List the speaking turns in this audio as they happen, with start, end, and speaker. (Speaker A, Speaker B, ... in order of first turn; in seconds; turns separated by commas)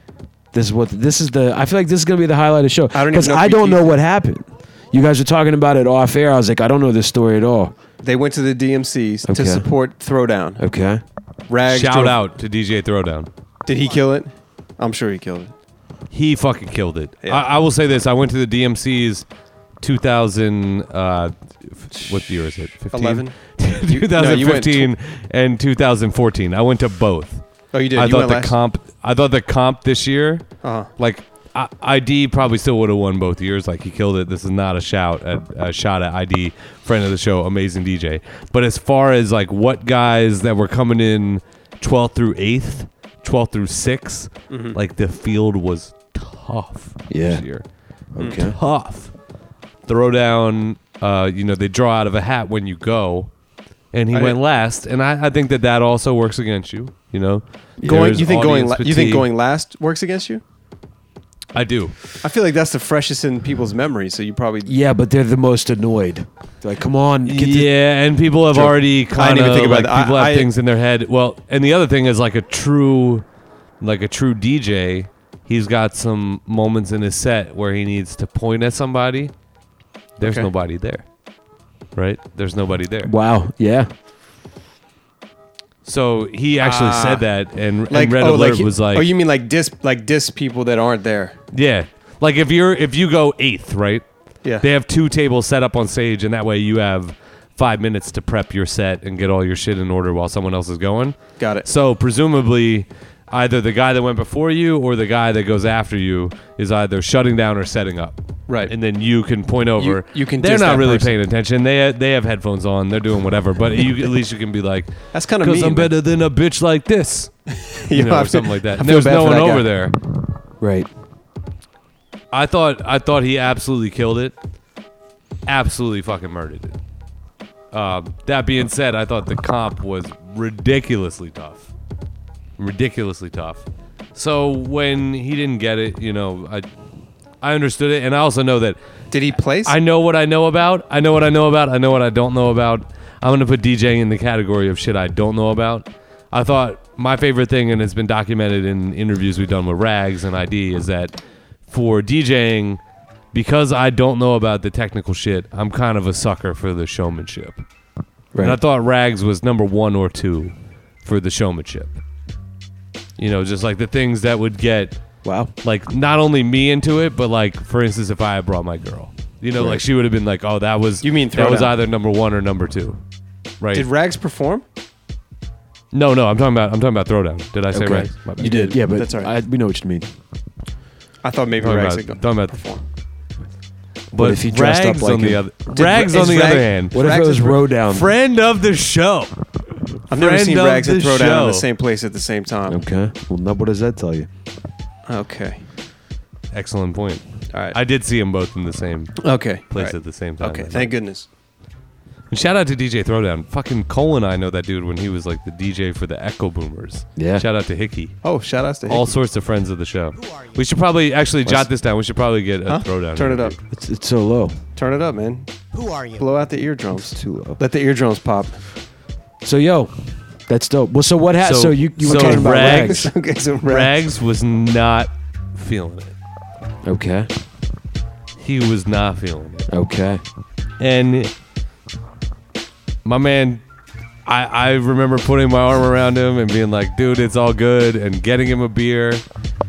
Speaker A: 0.5-7.7, Speaker B: 2.9-3.9, Speaker B: 8.0-10.6, Speaker A: 9.3-9.7, Speaker A: 10.6-11.0, Speaker B: 11.5-12.2, Speaker C: 11.7-13.3, Speaker B: 13.7-15.5, Speaker C: 16.1-19.3, Speaker C: 19.8-47.7, Speaker B: 22.9-24.9, Speaker B: 27.7-28.6, Speaker B: 30.6-30.9, Speaker B: 44.5-44.8, Speaker A: 47.1-47.4, Speaker A: 48.1-48.6, Speaker C: 48.3-49.1, Speaker C: 49.9-53.3, Speaker C: 53.9-59.3, Speaker B: 54.1-54.4, Speaker B: 57.8-60.4, Speaker C: 61.5-62.0, Speaker B: 62.2-64.8, Speaker A: 64.7-67.7, Speaker C: 67.3-73.2, Speaker B: 68.5-70.5, Speaker C: 73.8-79.3, Speaker C: 80.2-81.0, Speaker B: 80.2-80.5, Speaker C: 82.0-83.1, Speaker A: 83.0-83.9, Speaker C: 85.8-89.1, Speaker B: 86.6-87.3, Speaker B: 87.9-91.4, Speaker C: 91.5-94.0, Speaker C: 94.6-120.0, Speaker B: 101.4-101.7, Speaker B: 108.5-108.7, Speaker B: 109.8-111.1, Speaker B: 115.1-115.9, Speaker B: 117.6-119.7, Speaker A: 120.6-120.9, Speaker C: 122.3-124.3, Speaker C: 125.5-126.8, Speaker C: 127.7-131.7, Speaker C: 132.6-133.6, Speaker C: 134.2-136.7, Speaker C: 137.4-138.8, Speaker B: 139.1-139.8, Speaker C: 139.6-151.2, Speaker C: 151.7-152.8, Speaker C: 153.3-157.6, Speaker C: 158.4-162.0, Speaker C: 163.2-165.0, Speaker A: 165.2-165.5, Speaker C: 165.6-173.0, Speaker A: 169.6-169.8, Speaker B: 171.0-171.7, Speaker C: 173.6-173.9, Speaker B: 173.7-174.6, Speaker C: 175.9-178.8, Speaker A: 177.7-180.1, Speaker B: 178.8-179.3, Speaker B: 181.2-182.8, Speaker C: 181.6-182.6, Speaker C: 184.1-187.0, Speaker A: 184.2-185.4, Speaker B: 185.7-187.6, Speaker A: 186.9-188.1, Speaker C: 187.9-189.4, Speaker C: 190.1-191.7, Speaker B: 190.1-192.8, Speaker A: 192.7-194.3, Speaker B: 195.1-195.6, Speaker C: 196.5-200.9, Speaker B: 199.2-201.3, Speaker C: 202.3-208.2, Speaker A: 207.2-207.4, Speaker B: 208.2-209.1, Speaker C: 208.9-213.6, Speaker B: 212.7-213.6, Speaker A: 213.7-214.6, Speaker B: 214.8-218.6, Speaker A: 217.1-217.6, Speaker A: 219.4-223.1, Speaker C: 221.4-223.1, Speaker B: 222.0-223.9, Speaker C: 223.7-226.1, Speaker A: 226.8-227.3, Speaker C: 228.4-229.7, Speaker A: 229.7-230.2, Speaker C: 230.8-231.3, Speaker C: 233.1-233.6, Speaker C: 234.3-239.2